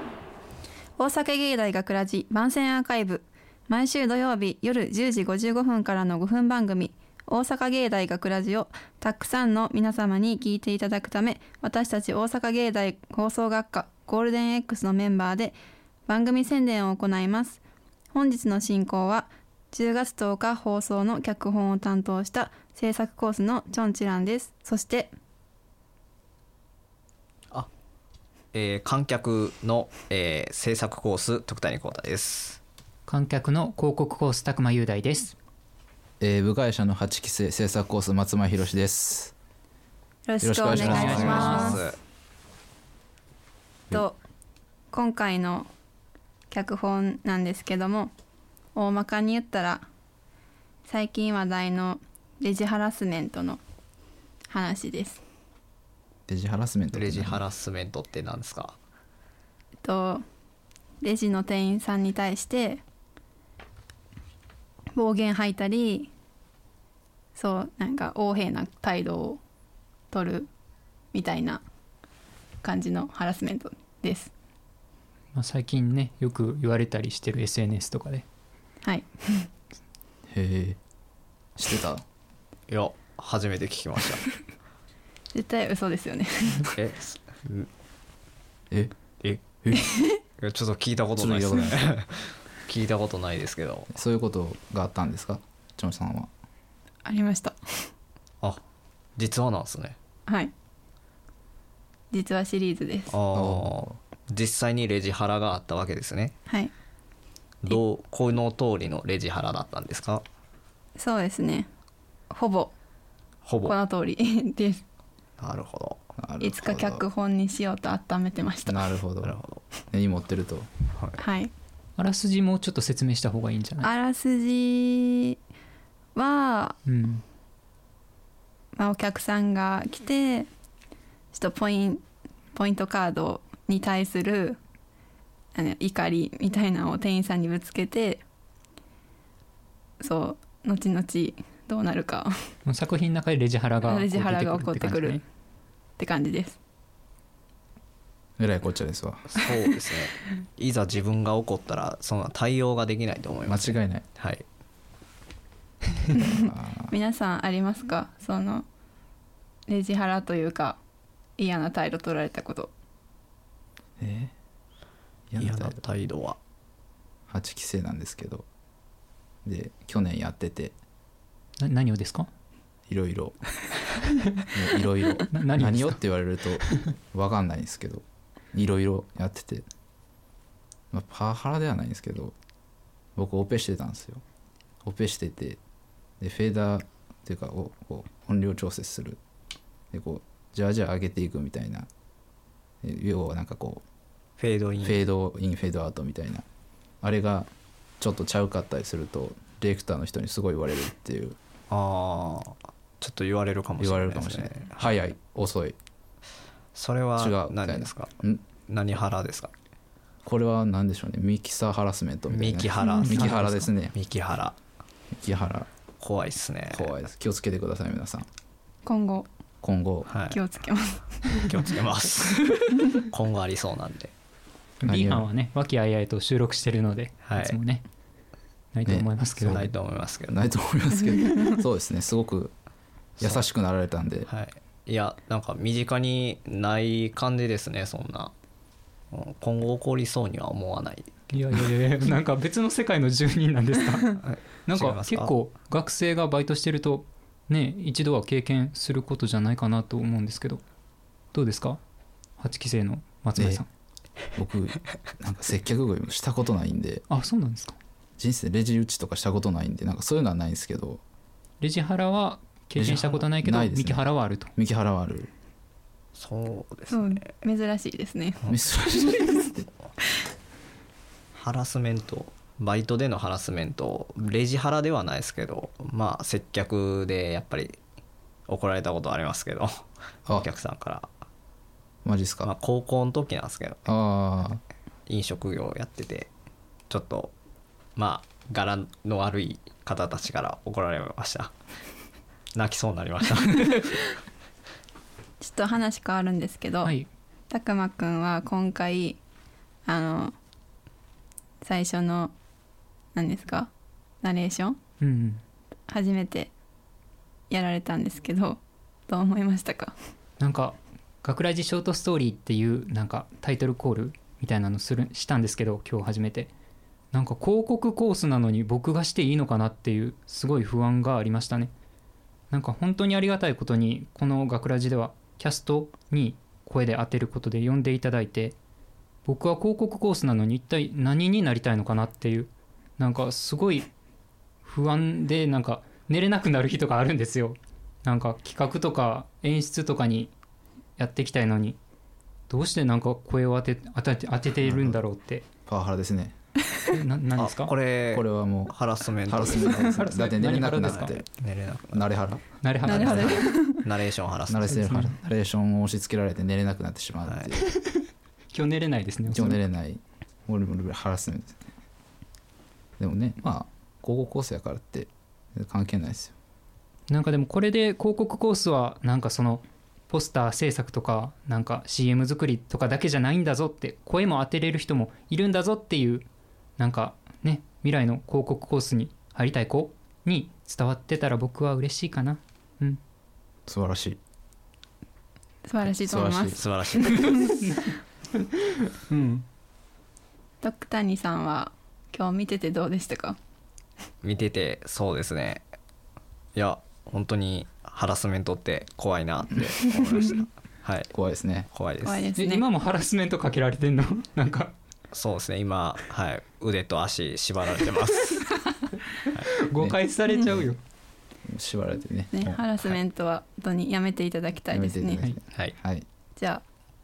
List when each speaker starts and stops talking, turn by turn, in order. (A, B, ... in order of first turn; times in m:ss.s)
0:01.0-0:15.6 A
0:16.1-0:17.6 A
0:18.1-0:25.1 A
0:28.5-0:32.6 B
0:33.1-0:35.4 C
0:36.2-0:39.3 D
0:40.3-0:41.8 A
0:40.4-0:41.8 D
0:40.7-0:41.8 C
0:40.8-0:42.0 B
0:43.9-0:44.2 A
0:44.9-0:45.7 A
0:46.5-0:48.1 A
0:48.8-0:49.9 A
0:50.9-0:53.6 A
0:54.5-0:55.2 A
0:56.3-0:57.4 D
0:56.9-0:58.8 B
0:59.8-1:00.2 A
1:01.0-1:02.8 A
1:05.0-1:06.1 A
1:07.4-1:09.4 A
1:10.1-1:10.5 A
1:11.1-1:11.6 A
1:12.6-1:14.3 A
1:15.3-1:18.2 C
1:18.8-1:19.5 A
1:20.3-1:20.8 D
1:21.6-1:22.0 D
1:22.7-1:24.2 B
1:25.3-1:26.7 A
1:26.8-1:27.7 B
1:29.6-1:29.9 D
1:29.7-1:30.2 A
1:30.4-1:33.9 B
1:31.2-1:31.8 D
1:33.9-1:36.3 D
1:37.0-1:37.6 A
1:39.2-1:40.0 B
1:40.3-1:40.5 A
1:42.1-1:43.1 A
1:43.1-1:46.3 B
1:43.3-1:43.8 D
1:46.5-1:46.7 A
1:47.6-1:50.2 B
1:51.0-1:51.7 A
1:52.3-1:52.7 A
1:53.4-1:53.8 B
1:53.6-1:54.8 A
1:55.4-1:56.0 B
1:56.2-1:57.0 D
1:56.4-1:59.0 A
1:58.7-1:59.4 D
1:59.2-1:59.6 B
1:59.9-2:00.7 D
2:01.2-2:01.5 A
2:02.0-2:03.9 C
2:03.8-2:05.4 A
2:06.2-2:06.8 A
2:06.9-2:07.2 C
2:08.8-2:10.5 A
2:11.3-2:12.0 A
2:12.6-2:14.6 A
2:15.6-2:18.2 A
2:20.0-2:22.3 A
2:22.7-2:25.2 C
2:23.8-2:25.2 A
2:26.0-2:26.6 A
2:28.4-2:29.4 D
2:29.3-2:34.4 B
2:33.5-2:34.0 D
2:36.1-2:38.7 A
2:36.3-2:36.9 D
2:39.7-2:40.8 A
2:41.4-2:42.7 A
2:44.0-2:44.3 D
2:45.3-2:45.8 D
2:45.4-2:46.4 B
2:47.3-2:48.4 D
2:49.4-2:50.8 D
2:51.6-2:52.3 C
2:52.9-2:53.4 D
2:54.5-2:59.6 D
2:55.3-2:56.0 C
3:00.9-3:02.3 D
3:03.2-3:04.2 D
3:04.8-3:05.6 D
3:06.2-3:09.2 D
3:09.9-3:11.9 D
3:12.8-3:13.8 D
3:14.4-3:15.0 B
3:14.8-3:16.4 D
3:17.0-3:17.5 D
3:18.0-3:21.4 D
3:21.7-3:24.9 B
3:23.8-3:25.8 D
3:26.8-3:28.1 B
3:27.2-3:28.4 D
3:28.7-3:29.5 B
3:30.2-3:34.0 D
3:32.3-3:34.6 B
3:33.1-3:33.7 C
3:35.1-3:35.7 D
3:36.0-3:37.0 B
3:36.7-3:38.3 D
3:38.8-3:39.3 A
3:39.6-3:40.1 D
3:40.1-3:40.4 B
3:40.3-3:41.1 A
3:41.5-3:44.1 B
3:44.8-3:47.8 C
3:44.8-3:45.3 D
3:47.2-3:47.6 B
3:48.7-3:49.7 C
3:48.9-3:52.5 D
3:49.5-3:50.5 B
3:53.2-3:54.3 D
3:54.3-3:58.3 B
3:59.1-4:01.1 B
4:01.3-4:10.6 C
4:04.2-4:05.3 B
4:11.3-4:11.8 C
4:12.4-4:13.7 C
4:13.4-4:13.6 D
4:14.4-4:17.0 D
4:17.1-4:17.8 C
4:18.2-4:21.0 D
4:21.6-4:24.5 C
4:22.8-4:25.3 D
4:26.2-4:27.2 B
4:26.9-4:28.6 A
4:28.5-4:29.7 D
4:31.4-4:37.8 B
4:38.5-4:41.1 B
4:42.0-4:42.5 D
4:42.4-4:43.9 B
4:43.9-4:44.6 D
4:45.1-4:46.3 B
4:46.9-4:47.3 B
4:48.0-4:51.5 B
4:52.6-4:54.1 B
4:55.4-4:57.0 A
4:56.8-4:57.1 C
4:57.5-4:59.2 A
4:59.9-5:00.3 A
5:01.6-5:02.3 A
5:03.2-5:03.7 A
5:04.2-5:04.8 A
5:05.0-5:05.4 C
5:05.9-5:06.5 A
5:07.5-5:09.9 A
5:10.4-5:16.5 C
5:17.1-5:21.7 C
5:22.5-5:28.6 C
5:29.3-5:33.9 C
5:34.6-5:40.3 C
5:41.0-5:41.8 C
5:42.5-5:45.4 C
5:44.6-5:45.0 D
5:45.7-5:46.3 D
5:46.9-5:47.7 C
5:47.4-5:50.1 B
5:48.1-5:51.3 D
5:50.0-5:51.0 C
5:50.8-5:52.1 B
5:51.9-5:53.3 D
5:52.6-5:53.4 C
5:52.8-5:53.9 A
5:52.9-5:54.8 B
5:54.5-5:57.7 D
5:54.7-5:55.2 C
5:57.2-5:57.5 B
5:57.8-5:59.6 C
5:59.3-6:01.7 D
6:03.0-6:06.3 D
6:07.1-6:16.3 C
6:16.8-6:23.0 C
6:23.7-6:24.2 D
6:25.6-6:27.6 A
6:25.9-6:27.0 D
6:26.6-6:27.4 B
6:29.1-6:29.4 C
6:30.6-6:33.4 A
6:34.2-6:35.6 B
6:36.6-6:41.1 B
6:41.1-6:41.7 D
6:41.7-6:42.3 B
6:42.0-6:42.7 A
6:42.4-6:44.7 C
6:45.1-6:48.6 B
6:49.5-6:50.8 C
6:49.8-6:50.7 D
6:51.4-6:52.6 D
6:52.3-6:55.2 A
6:54.7-6:56.0 D
6:56.4-6:56.6 A